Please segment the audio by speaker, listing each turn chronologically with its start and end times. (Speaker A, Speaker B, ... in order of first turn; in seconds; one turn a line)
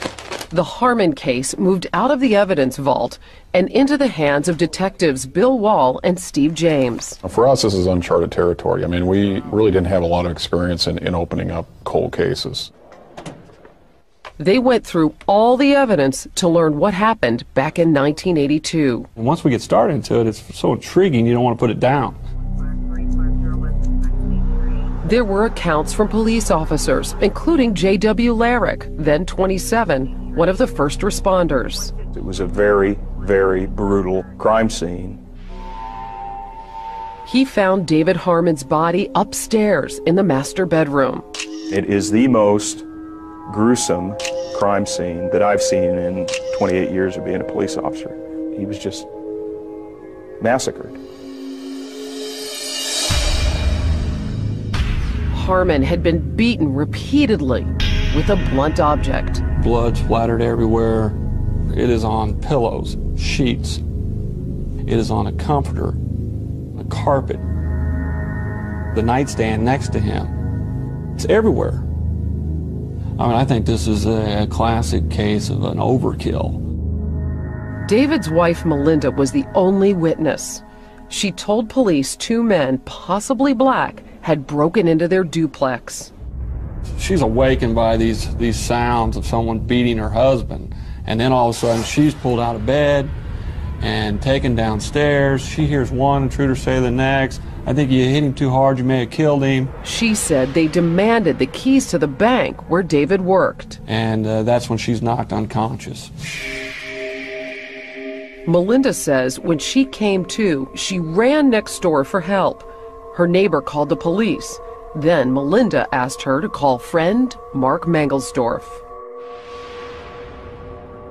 Speaker A: 0.5-7.2
Speaker B: 7.2-12.7
Speaker A: 14.4-19.1
Speaker C: 19.1-22.2
Speaker A: 25.0-31.9
Speaker D: 32.1-35.2
Speaker A: 37.2-41.2
Speaker D: 41.7-42.8
Speaker D: 43.5-49.1
Speaker D: 50.4-51.0
Speaker A: 55.3-59.4
Speaker C: 59.6-61.2
Speaker C: 61.7-63.8
Speaker C: 64.8-66.0
Speaker C: 66.7-67.4
Speaker C: 68.9-70.3
Speaker C: 71.2-71.8
Speaker C: 73.2-76.6
Speaker A: 77.8-86.1
Speaker C: 87.0-93.1
Speaker C: 93.8-99.7
Speaker A: 99.8-103.8
Speaker C: 103.8-106.1
Speaker A: 108.5-118.8